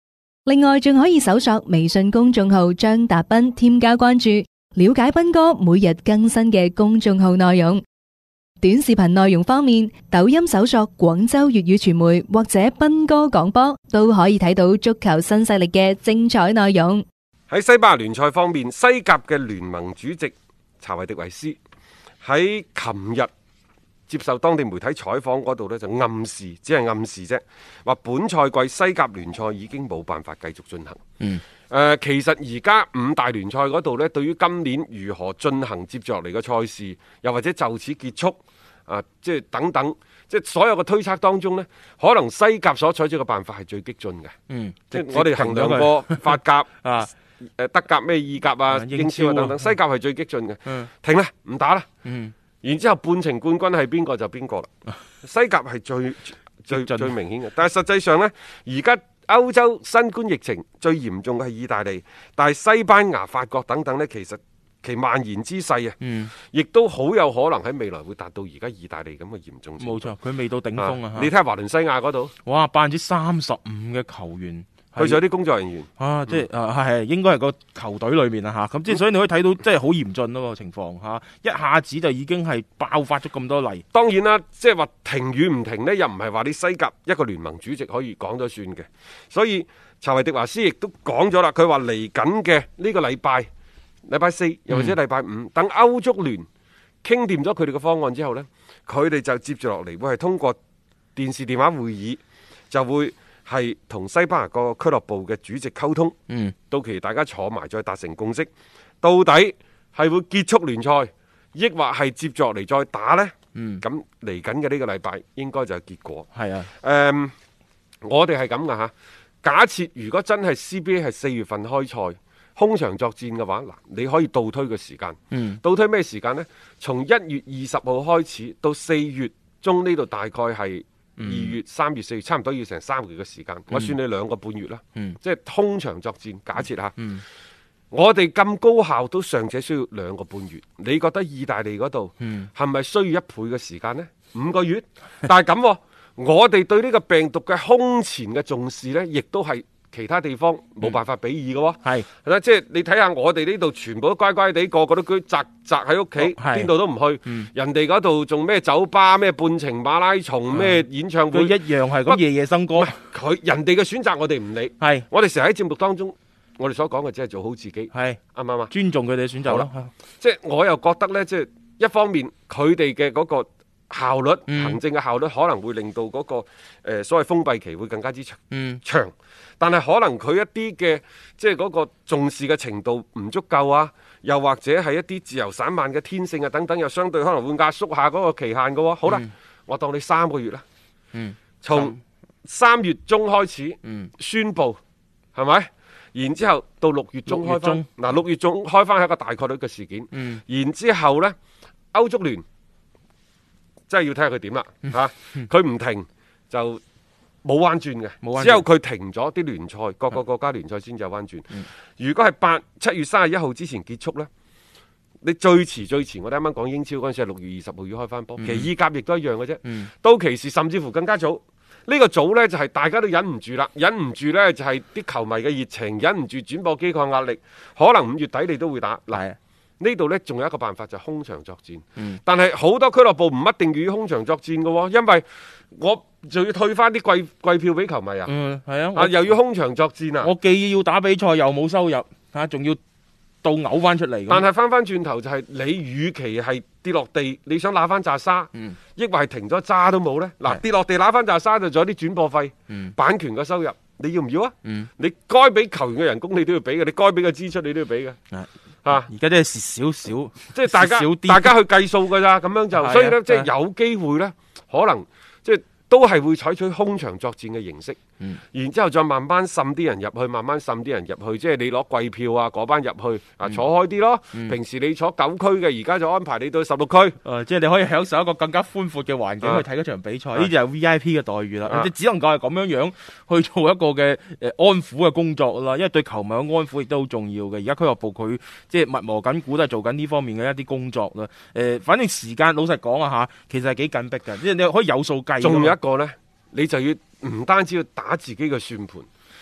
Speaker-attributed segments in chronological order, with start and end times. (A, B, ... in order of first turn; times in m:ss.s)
0:00.5-0:07.8 A
0:08.6-0:17.0 A
0:17.5-0:21.6 B
0:22.2-0:23.3 B
0:24.1-0:31.0 B
0:31.7-0:44.3 B
0:44.5-0:47.1 C
0:44.9-0:46.7 B
0:47.6-0:51.9 B
0:48.7-0:49.7 C
0:52.0-0:52.3 C
0:52.6-0:54.7 B
0:55.2-1:10.1 B
0:56.7-0:57.1 C
1:06.0-1:06.3 C
1:09.8-1:11.3 C
1:10.8-1:12.3 B
1:12.4-1:15.2 C
1:15.0-1:16.4 B
1:16.0-1:23.8 C
1:23.9-1:33.5 B
1:34.1-1:36.5 B
1:37.0-1:40.6 B
1:41.2-1:46.2 B
1:46.3-1:46.6 C
1:46.7-1:48.5 B
1:49.0-1:57.3 B
1:53.5-1:53.8 C
1:56.3-1:56.7 C
1:58.0-2:17.0 B
2:05.3-2:05.6 C
2:11.2-2:11.6 C
2:17.0-2:17.2 C
2:17.9-2:42.2 B
2:22.2-2:22.5 C
2:36.2-2:36.7 C
2:40.5-2:42.9 C
2:42.7-2:48.7 B
2:44.8-2:45.1 C
2:47.9-2:49.9 C
2:50.2-3:10.6 B
2:54.5-2:54.8 C
2:58.5-2:58.8 C
3:11.1-3:12.0 C
3:11.6-3:14.8 B
3:13.8-3:14.1 C
3:15.3-3:21.4 B
3:17.3-3:17.8 C
3:20.1-3:20.4 C
3:21.9-3:22.4 B
3:23.9-3:26.8 B
3:27.4-3:34.3 B
3:28.2-3:28.6 C
3:35.2-3:49.2 B
3:38.4-3:38.7 C
3:49.1-3:49.4 C
3:49.8-3:58.3 B
3:58.2-3:59.3 C
3:59.0-4:00.3 B
4:00.2-4:02.8 C
4:03.4-4:04.4 C
4:04.3-4:18.2 B
4:12.7-4:13.0 C
4:18.3-4:21.5 C
4:18.8-4:19.1 B
4:20.5-4:28.0 B
4:22.7-4:23.5 C
4:28.5-4:37.2 B
4:37.2-4:55.8 C
4:41.6-4:41.9 B
4:55.4-4:59.1 B